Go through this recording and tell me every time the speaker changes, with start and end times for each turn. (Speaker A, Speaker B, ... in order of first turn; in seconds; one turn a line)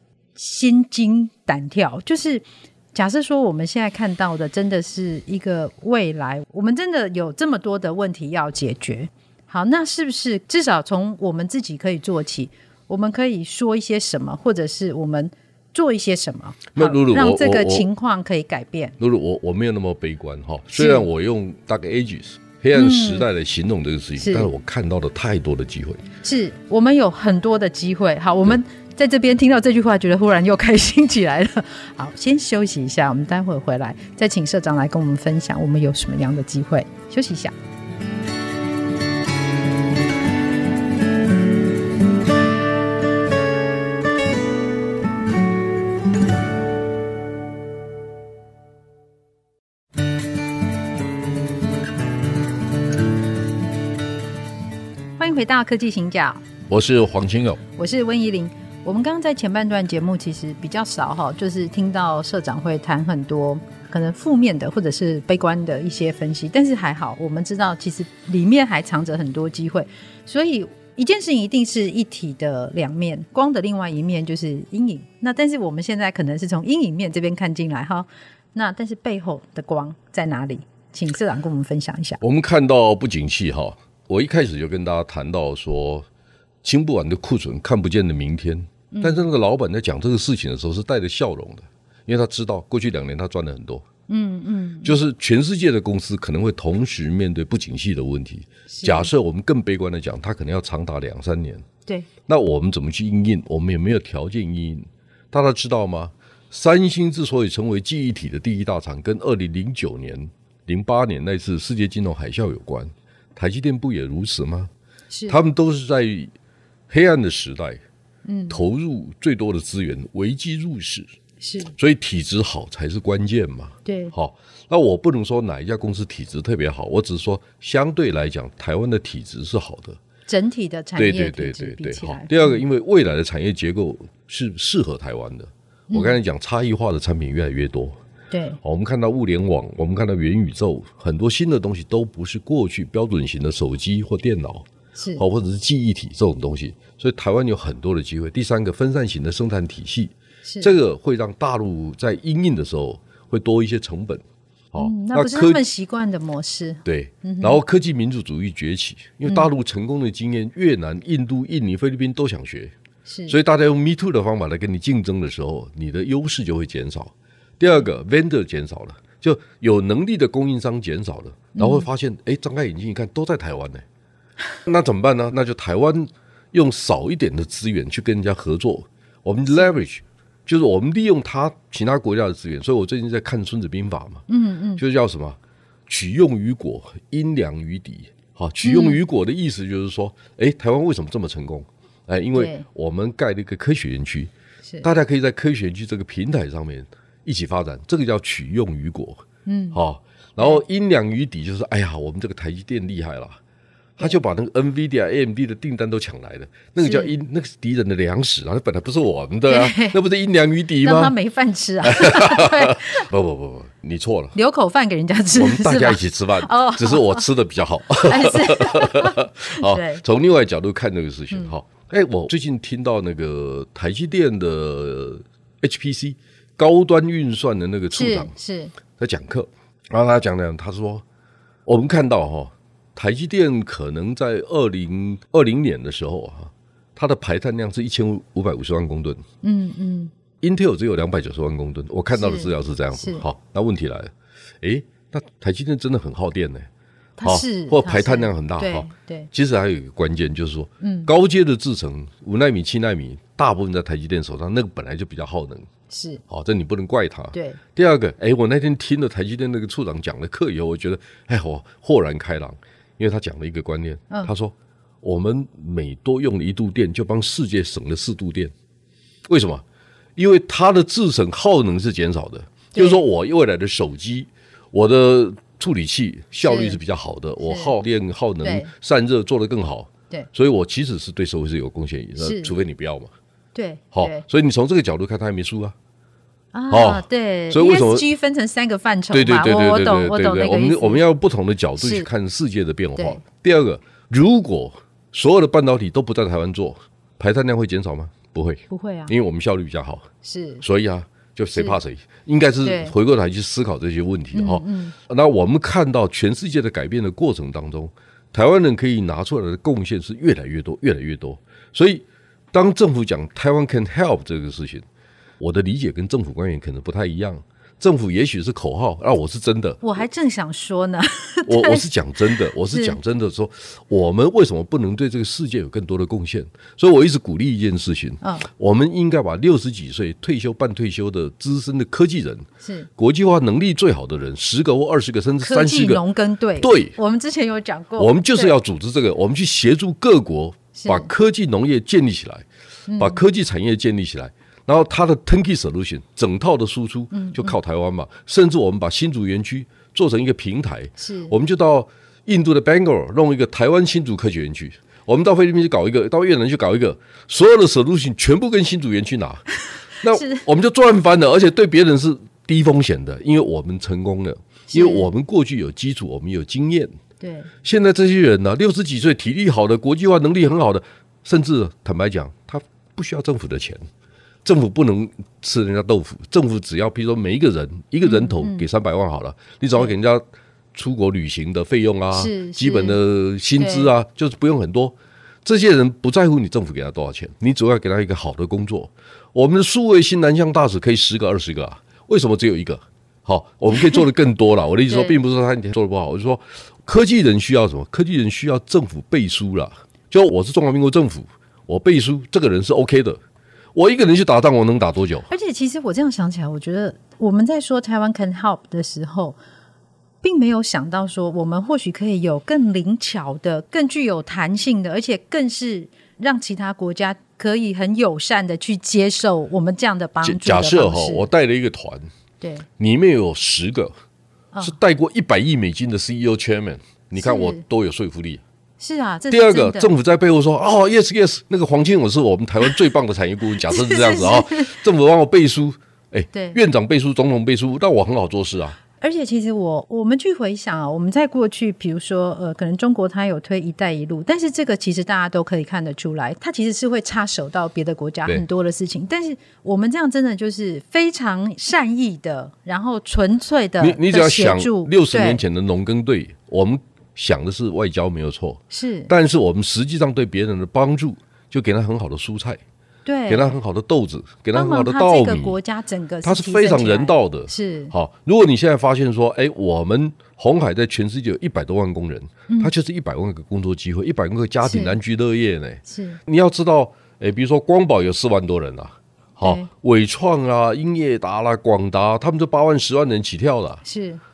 Speaker A: 0.3-19.0
Speaker B: 16.8-17.9
Speaker B: 19.0-26.1
Speaker A: 20.8-21.1
Speaker A: 22.7-23.3
Speaker A: 24.2-24.5
Speaker A: 26.2-37.5
Speaker A: 55.2-56.4
Speaker B: 56.7-57.6
Speaker A: 57.8-82.2
Speaker B: 82.2-86.1
Speaker B: 86.6-93.9
Speaker A: 88.9-89.2
Speaker A: 94.1-95.0
Speaker B: 94.8-101.7
Speaker A: 98.7-99.1
Speaker B: 102.3-114.7
Speaker A: 115.1-115.4
Speaker B: 115.3-116.3
Speaker B: 116.9-117.8
Speaker A: 118.2-118.6
Speaker B: 118.5-121.1
Speaker A: 121.4-121.7
Speaker B: 121.8-130.0
Speaker A: 123.8-124.1
Speaker A: 130.3-132.6
Speaker B: 131.0-138.0
Speaker A: 135.9-136.2
Speaker A: 138.3-138.6
Speaker B: 138.6-155.6
Speaker A: 145.0-145.2
Speaker A: 150.4-150.7
Speaker A: 154.8-157.6
Speaker B: 156.8-162.7
Speaker A: 163.1-163.3
Speaker B: 163.3-173.8
Speaker A: 171.6-171.9
Speaker B: 174.7-184.2
Speaker A: 184.3-184.8
Speaker B: 184.8-194.3
Speaker A: 188.6-189.0
Speaker A: 192.3-192.7
Speaker B: 194.8-203.4
Speaker A: 199.5-199.8
Speaker B: 204.0-211.2
Speaker A: 206.8-207.1
Speaker A: 209.5-210.0
Speaker A: 210.8-213.1
Speaker B: 211.8-214.4
Speaker A: 214.3-217.3
Speaker B: 215.3-228.3
Speaker A: 218.0-220.0
Speaker A: 227.9-228.8
Speaker B: 229.0-231.1
Speaker B: 231.7-239.2
Speaker A: 239.4-240.1
Speaker B: 240.4-246.7
Speaker A: 242.1-243.3
Speaker A: 247.2-249.3
Speaker B: 247.2-255.7
Speaker A: 250.8-251.1
Speaker A: 255.9-256.2
Speaker B: 256.3-268.5
Speaker A: 257.3-257.6
Speaker B: 269.3-269.6
Speaker B: 270.2-283.1
Speaker A: 272.8-273.0
Speaker A: 276.4-276.8
Speaker A: 277.4-277.7
Speaker A: 278.4-278.7
Speaker A: 282.2-282.6
Speaker A: 283.6-284.2
Speaker B: 283.9-285.8
Speaker A: 286.5-291.0
Speaker B: 286.7-288.1
Speaker B: 289.1-300.1
Speaker A: 291.8-292.1
Speaker A: 293.0-293.2
Speaker A: 298.7-299.1
Speaker A: 300.2-300.6
Speaker B: 300.6-314.9
Speaker A: 302.6-302.9
Speaker A: 304.3-304.9
Speaker B: 315.4-320.0
Speaker A: 319.8-321.9
Speaker B: 321.5-336.0
Speaker A: 322.7-323.0
Speaker A: 332.6-332.9
Speaker A: 335.4-338.6
Speaker B: 336.6-337.0
Speaker B: 338.0-342.5
Speaker A: 340.8-341.1
Speaker A: 342.9-343.2
Speaker B: 343.0-359.5
Speaker A: 347.1-347.6
Speaker A: 351.0-351.3
Speaker B: 360.0-366.9
Speaker A: 360.1-360.4
Speaker A: 364.7-365.1
Speaker A: 367.2-367.5
Speaker B: 367.6-373.9
Speaker B: 374.4-403.2
Speaker A: 378.0-378.7
Speaker A: 382.1-383.0
Speaker A: 383.6-383.9
Speaker A: 394.9-395.2
Speaker B: 403.7-405.3
Speaker A: 405.3-409.4
Speaker A: 410.2-421.3
Speaker B: 420.2-422.1
Speaker A: 422.4-422.7
Speaker B: 422.8-423.9
Speaker B: 424.6-428.4
Speaker A: 427.2-427.6
Speaker A: 428.8-429.9
Speaker B: 429.3-438.8
Speaker A: 433.7-434.7
Speaker A: 436.3-436.6
Speaker A: 439.0-455.4
Speaker B: 453.8-462.6
Speaker A: 458.7-459.1
Speaker A: 463.1-463.6
Speaker B: 463.3-465.6
Speaker A: 464.5-467.9
Speaker B: 466.2-483.8
Speaker A: 474.6-475.0
Speaker A: 475.9-476.2
Speaker A: 479.4-479.7
Speaker A: 483.9-484.2